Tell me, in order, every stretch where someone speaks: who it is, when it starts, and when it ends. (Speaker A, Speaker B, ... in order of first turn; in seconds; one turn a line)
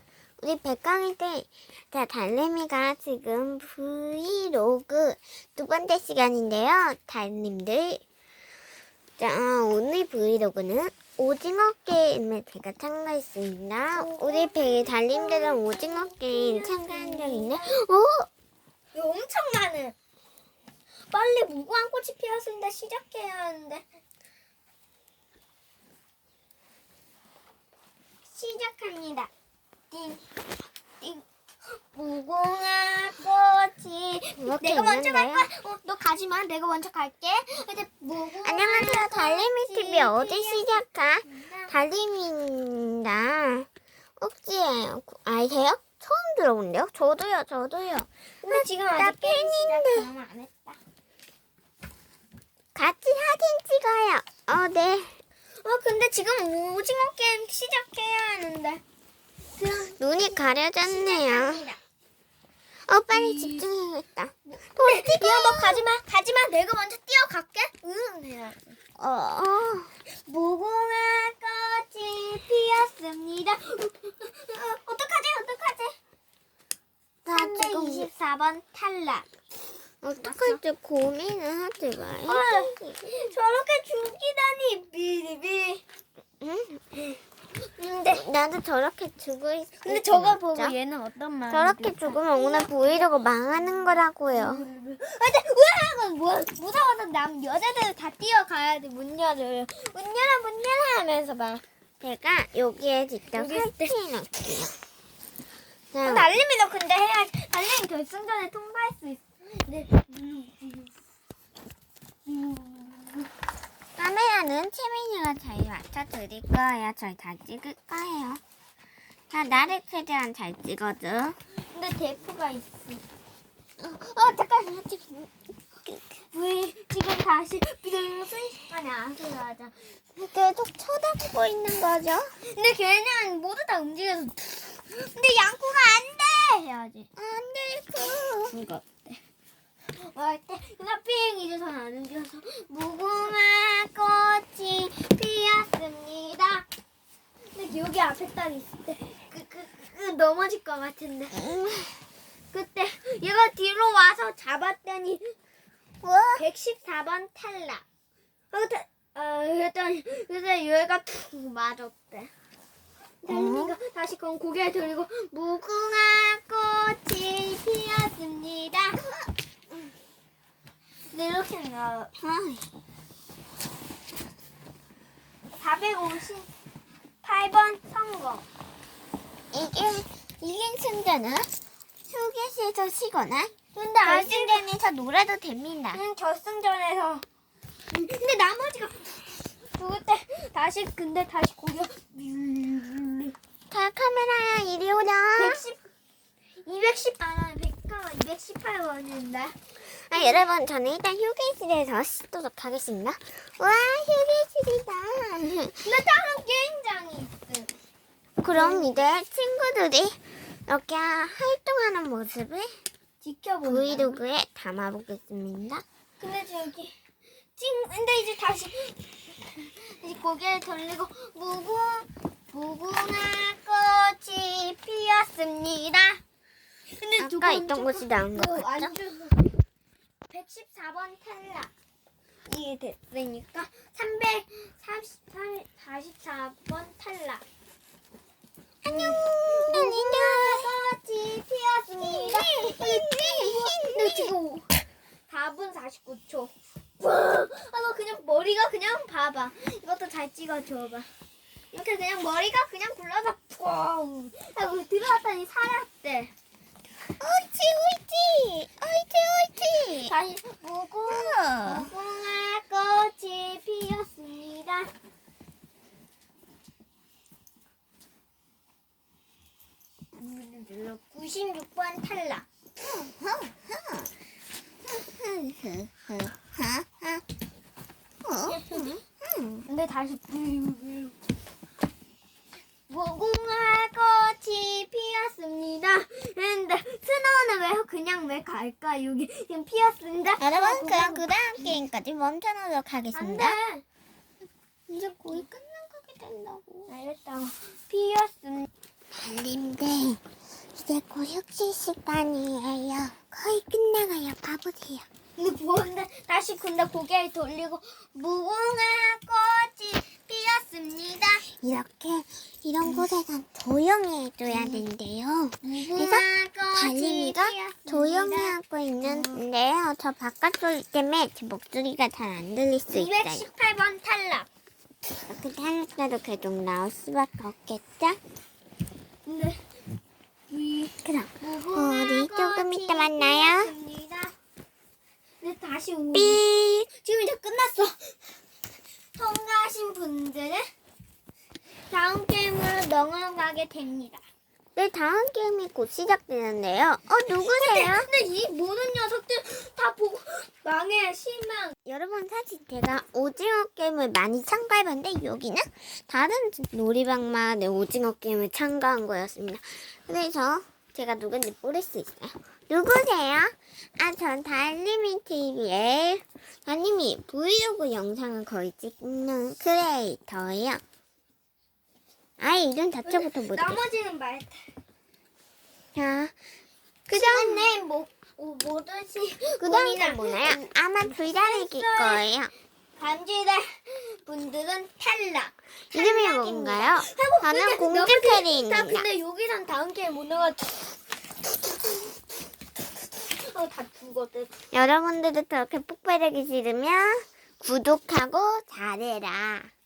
Speaker A: 0.4-8.0
Speaker A: 9.2-18.3
Speaker B: 13.9-17.8
Speaker B: 18.9-19.9
Speaker B: 21.1-23.8
Speaker B: 28.3-29.3
Speaker B: 29.9-30.2
Speaker B: 31.9-41.7
Speaker A: 34.4-35.5
Speaker A: 38.4-43.7
Speaker A: 44.2-50.1
Speaker B: 48.4-50.8
Speaker A: 52.8-55.2
Speaker B: 55.6-58.8
Speaker B: 59.6-61.8
Speaker A: 59.9-61.7
Speaker A: 62.9-65.8
Speaker B: 63.1-63.6
Speaker B: 64.5-68.8
Speaker A: 69.0-69.9
Speaker B: 70.2-76.0
Speaker A: 77.3-78.1
Speaker B: 77.3-79.3
Speaker A: 80.0-83.2
Speaker B: 80.2-80.6
Speaker B: 82.3-85.8
Speaker A: 86.4-86.8
Speaker B: 87.8-88.2
Speaker A: 88.1-90.8
Speaker B: 89.8-93.1
Speaker A: 91.5-94.7
Speaker B: 93.7-101.6
Speaker A: 102.0-104.7
Speaker B: 103.3-103.9
Speaker A: 105.9-106.3
Speaker B: 106.0-110.9
Speaker B: 112.2-113.3
Speaker A: 114.0-118.4
Speaker A: 119.3-121.4
Speaker B: 121.7-123.0
Speaker A: 123.8-125.2
Speaker B: 126.3-129.8
Speaker A: 130.2-132.3
Speaker B: 132.4-137.1
Speaker A: 137.2-138.6
Speaker B: 138.5-139.2
Speaker B: 139.9-146.7
Speaker B: 147.5-151.4
Speaker A: 151.3-152.0
Speaker B: 152.5-155.3
Speaker A: 156.0-156.4
Speaker B: 156.4-157.8
Speaker B: 158.5-162.3
Speaker B: 163.2-169.0
Speaker A: 163.3-163.8
Speaker B: 171.1-172.1
Speaker A: 172.2-172.7
Speaker B: 175.6-176.5
Speaker B: 177.2-178.4
Speaker A: 179.5-181.5
Speaker A: 182.1-183.5
Speaker B: 183.7-184.7
Speaker A: 184.0-186.0
Speaker B: 185.9-187.2
Speaker B: 187.9-193.4
Speaker A: 193.7-195.6
Speaker B: 195.4-195.8
Speaker B: 196.7-199.6
Speaker A: 199.9-205.9
Speaker B: 200.1-200.5
Speaker B: 205.8-207.7
Speaker A: 208.4-212.8
Speaker B: 208.5-209.0
Speaker B: 213.2-214.1
Speaker A: 213.6-215.8
Speaker B: 216.2-216.9
Speaker B: 217.6-226.2
Speaker B: 226.9-229.5
Speaker A: 227.2-228.9
Speaker B: 230.3-231.7
Speaker B: 232.5-237.4
Speaker A: 238.8-240.7
Speaker B: 238.9-251.1
Speaker A: 242.0-244.3
Speaker B: 251.7-256.3
Speaker A: 257.2-260.1
Speaker B: 260.0-264.9
Speaker A: 261.1-261.9
Speaker B: 270.1-272.5
Speaker A: 272.8-274.1
Speaker A: 274.9-277.2
Speaker A: 278.2-279.7
Speaker B: 278.5-278.9
Speaker B: 279.7-281.1
Speaker B: 282.9-291.8
Speaker A: 290.4-293.6
Speaker B: 293.1-293.8
Speaker A: 294.9-296.9
Speaker B: 296.9-298.7
Speaker A: 299.1-300.2
Speaker A: 300.7-305.1
Speaker B: 305.4-311.4
Speaker A: 311.5-323.5
Speaker B: 314.5-314.9
Speaker B: 315.6-319.4
Speaker B: 322.9-324.5
Speaker A: 325.3-328.2
Speaker B: 329.3-329.6
Speaker B: 330.5-334.3
Speaker A: 331.0-333.7
Speaker B: 335.4-336.5
Speaker A: 336.1-336.9
Speaker B: 337.0-338.2
Speaker B: 339.2-340.7
Speaker B: 341.9-344.2
Speaker A: 344.8-348.1
Speaker B: 347.4-351.7
Speaker A: 351.9-370.8
Speaker A: 372.4-373.8
Speaker B: 373.1-374.6
Speaker A: 375.9-376.4
Speaker B: 377.1-382.2
Speaker A: 377.1-377.8
Speaker A: 379.6-382.5
Speaker B: 383.0-390.9
Speaker A: 385.9-389.1
Speaker B: 393.2-394.5
Speaker A: 394.7-399.7